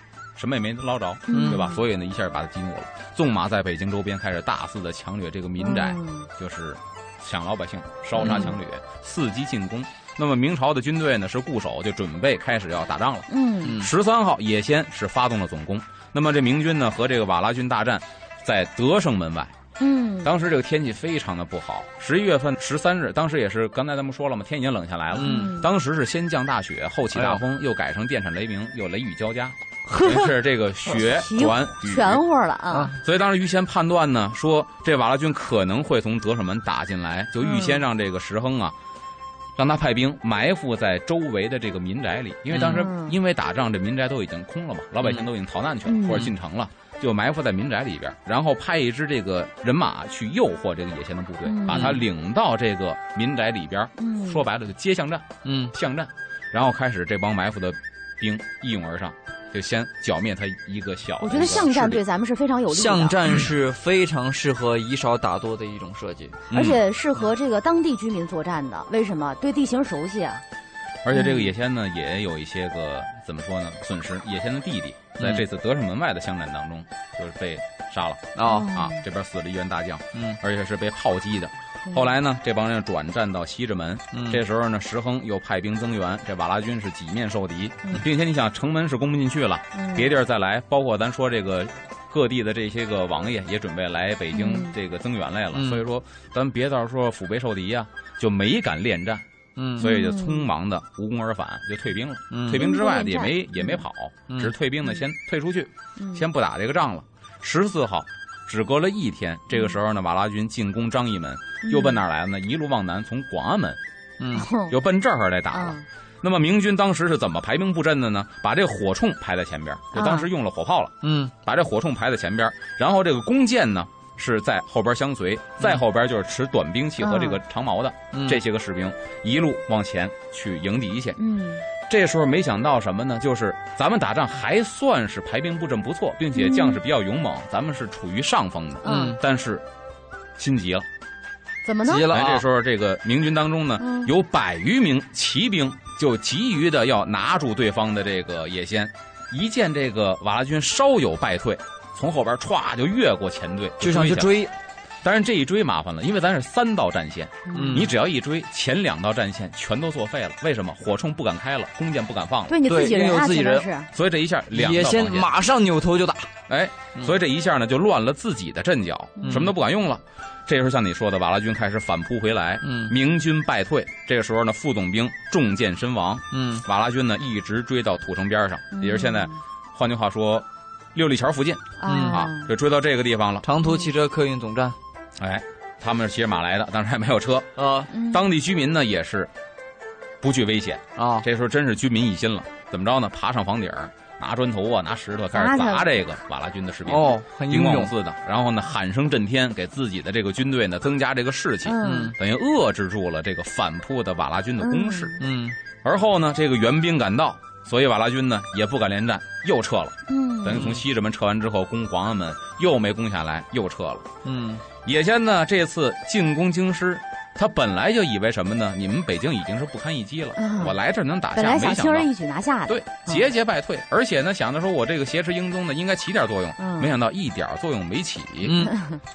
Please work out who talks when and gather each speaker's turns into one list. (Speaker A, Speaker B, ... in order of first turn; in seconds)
Speaker A: 0.3-19.6, 20.2-32.2, 33.0-38.8, 39.6-62.0, 66.5-66.8, 71.0-99.2, 99.8-113.8, 114.7-131.2, 131.8-139.7, 140.4-140.9, 142.1-154.4, 155.0-162.6, 163.9-165.3, 166.5-183.4, 185.2-189.3, 190.2-205.2, 205.8-214.1, 214.8-222.1, 222.7-228.7
Speaker B: 1.3-1.8, 5.6-6.3, 8.2-8.5, 13.3-13.8, 19.8-20.3, 25.2-25.7, 30.9-32.9, 37.4-37.8, 42.6-43.1, 45.8-46.3, 51.4-52.0, 54.0-54.4, 61.2-63.2, 66.5-70.4, 71.1-71.5, 78.4-79.0, 89.7-90.1, 94.3-94.7, 99.8-100.5, 102.5-103.8, 106.0-106.2, 109.5-109.8, 111.6-112.0, 114.3-114.8, 115.5-115.8, 119.9-120.3, 127.0-127.4, 131.2-131.6, 136.3-136.8, 138.8-139.2, 141.6-142.2, 143.8-144.1, 157.5-157.8, 162.5-163.9, 178.7-179.3, 181.8-182.5, 187.9-188.3, 195.3-196.0, 201.6-202.1, 204.6-205.2, 210.1-210.7, 220.4-220.8, 221.3-223.3, 226.6-226.9
Speaker C: 1.3-1.6, 8.2-8.5, 13.6-13.9, 25.1-25.6, 27.1-27.4, 29.9-30.3, 42.5-42.8, 51.7-52.0, 55.4-55.7, 62.7-66.4, 75.2-75.4, 78.3-78.7, 84.1-84.4, 95.5-95.8, 99.5-99.9, 102.3-102.6, 114.2-114.5, 121.0-121.3, 128.1-128.4, 138.8-139.2, 141.8-142.4, 153.8-154.5, 157.5-157.9, 162.6-163.7, 164.5-166.3, 169.2-169.5, 172.6-172.9, 176.3-176.6, 181.8-182.2, 183.4-184.8, 187.6-187.9, 190.9-191.2, 196.8-197.9, 201.8-202.1, 205.2-205.6, 210.5-210.8, 214.2-214.6, 228.4-228.8